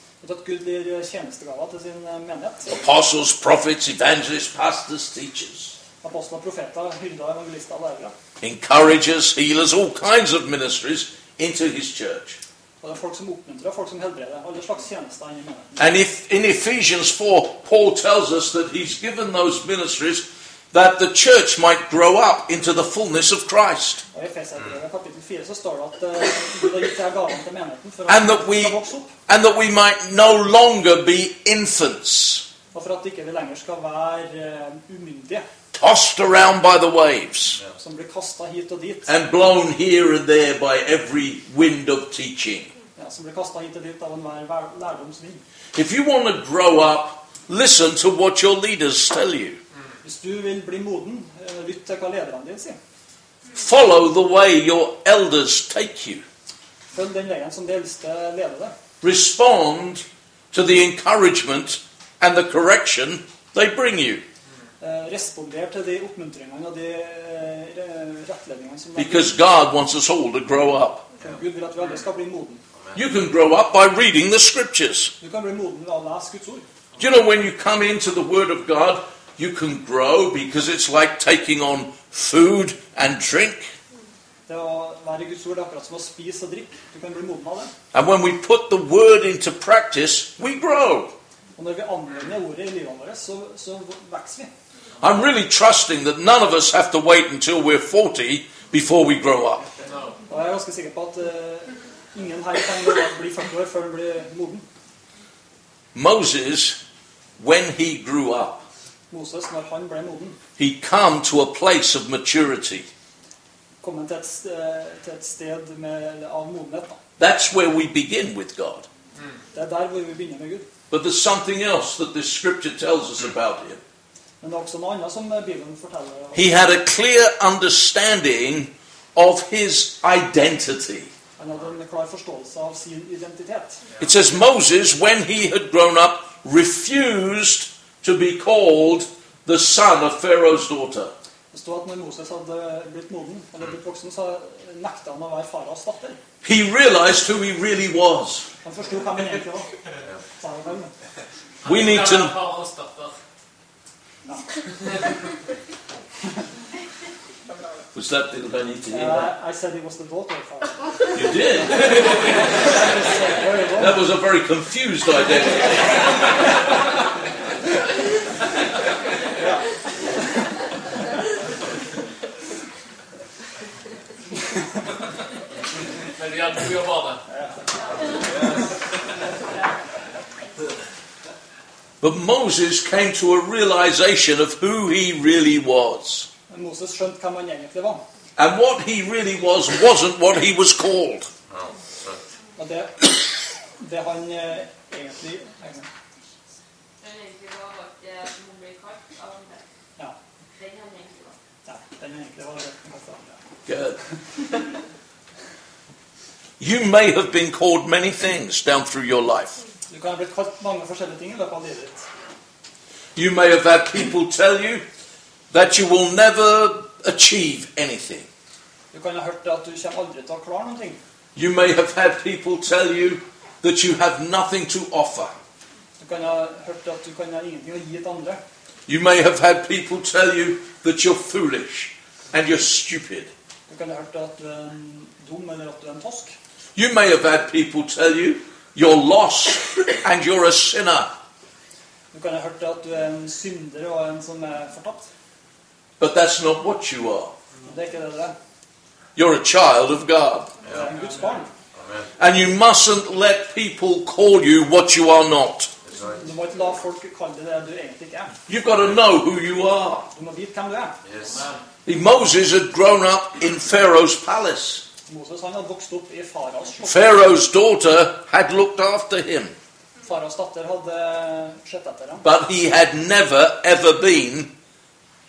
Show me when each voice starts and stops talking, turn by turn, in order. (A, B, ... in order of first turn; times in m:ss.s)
0:00.2-0:02.7 A
0:02.7-0:05.7 B
0:06.0-0:08.1 A
0:08.4-0:12.4 B
0:12.8-0:15.9 A
0:15.8-0:24.0 B
0:24.1-0:29.1 A
0:28.1-0:32.4 B
0:32.7-0:35.4 A
0:35.7-0:37.6 B
0:37.8-0:39.1 A
0:39.1-0:42.7 B
0:43.0-0:45.4 A
0:45.7-0:49.6 B
0:50.0-0:52.8 A
0:53.5-0:56.2 B
0:56.9-0:58.7 A
0:59.0-1:04.2 B
1:04.8-1:09.3 A
1:09.0-1:11.0 B
1:11.2-1:12.6 A
1:12.9-1:15.1 B
1:15.2-1:16.6 A
1:17.0-1:23.7 B
1:24.5-1:27.7 A
1:27.9-1:31.1 B
1:31.6-1:34.5 A
1:35.0-1:39.7 B
1:39.8-1:40.2 C
1:40.3-1:44.6 A
1:45.9-1:46.8 B
1:47.4-1:48.6 B
1:49.1-1:50.4 A
1:50.6-1:52.9 B
1:53.8-1:57.0 A
1:57.2-1:58.9 B
1:59.5-2:00.6 A
2:00.9-2:03.8 B
2:04.4-2:06.5 A
2:06.3-2:11.1 B
2:11.4-2:13.8 A
2:14.0-2:21.1 B
2:21.5-2:26.2 A
2:26.4-2:28.5 B
2:28.6-2:29.7 A
2:30.4-2:30.9 A
2:31.6-2:32.4 B
2:31.6-2:33.1 C
2:37.9-2:39.3 B
2:38.9-2:41.1 A
2:41.1-2:42.5 B
2:41.9-2:44.0 A
2:43.7-2:46.0 B
2:49.4-2:49.6 A
2:56.1-2:57.2 C
2:57.3-2:57.6 A
3:02.0-3:06.3 B
3:06.5-3:08.0 A
3:08.4-3:11.3 B
3:11.5-3:12.2 C
3:12.6-3:15.9 A
3:17.0-3:19.6 D
3:20.5-3:21.4 D
3:21.6-3:23.4 A
3:23.6-3:24.0 B
3:26.6-3:29.6 B
3:29.9-3:32.0 A
3:33.1-3:34.8 B
3:35.5-3:38.3 B
3:38.9-3:41.0 A
3:41.3-3:45.3 B
3:46.0-3:48.4 A
3:48.9-3:53.3 B
3:53.7-3:56.3 A
3:56.7-4:01.1 B
4:02.1-4:05.1 A
4:06.0-4:07.3 B
4:07.6-4:08.4 A
4:09.2-4:10.5 B
4:10.6-4:11.5 A
4:11.7-4:12.1 C
4:12.2-4:15.7 B
4:15.9-4:16.2 C
4:16.2-4:18.3 A
4:18.5-4:20.1 B
4:20.1-4:21.0 A
4:21.0-4:21.6 C
4:21.8-4:24.8 B
4:25.1-4:27.1 A
4:26.8-4:29.5 B
4:30.0-4:32.2 A
4:32.2-4:34.5 B